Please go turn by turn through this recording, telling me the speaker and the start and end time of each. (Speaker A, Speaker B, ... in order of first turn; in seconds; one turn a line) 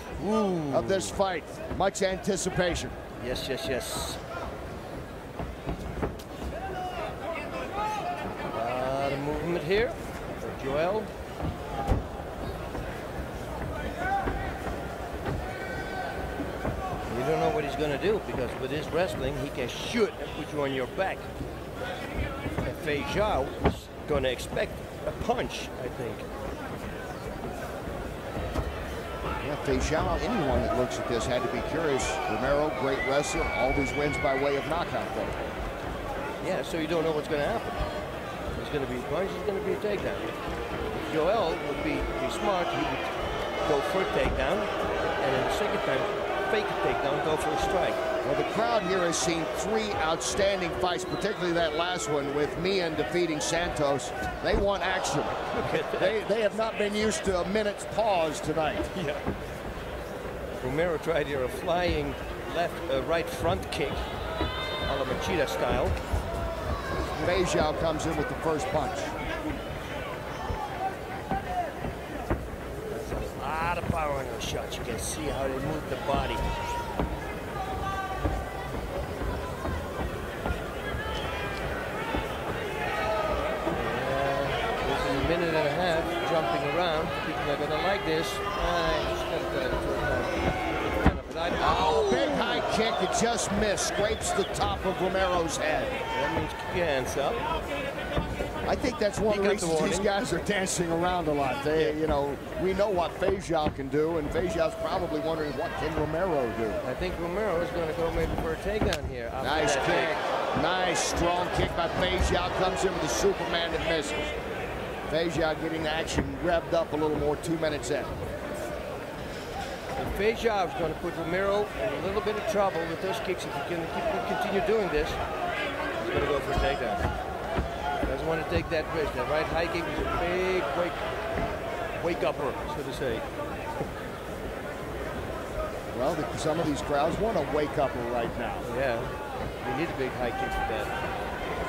Speaker A: 0.2-1.2
Speaker B: 0.7-3.0
Speaker A: 3.2-4.2
Speaker A: 8.5-11.1
Speaker A: 17.1-21.3
Speaker A: 22.6-26.3
Speaker B: 29.4-35.4
Speaker A: 36.4-37.9
Speaker A: 38.5-40.3
Speaker A: 40.9-43.1
Speaker A: 43.7-44.7
Speaker A: 45.2-48.0
Speaker B: 48.2-58.9
Speaker A: 55.5-56.2
Speaker A: 58.9-59.2
Speaker A: 60.6-64.0
Speaker A: 64.9-66.0
Speaker B: 67.2-69.1
Speaker A: 72.9-76.5
Speaker A: 83.8-92.7
Speaker B: 91.6-96.0
Speaker A: 96.1-97.4
Speaker B: 98.7-106.8
Speaker A: 99.3-100.1
Speaker A: 106.8-110.2
Speaker B: 109.4-114.3
Speaker B: 115.1-118.2
Speaker A: 120.0-125.2
Speaker A: 126.0-127.1
Speaker A: 128.1-131.0
Speaker A: 132.0-133.2
Speaker B: 135.9-138.7
Speaker A: 138.6-140.9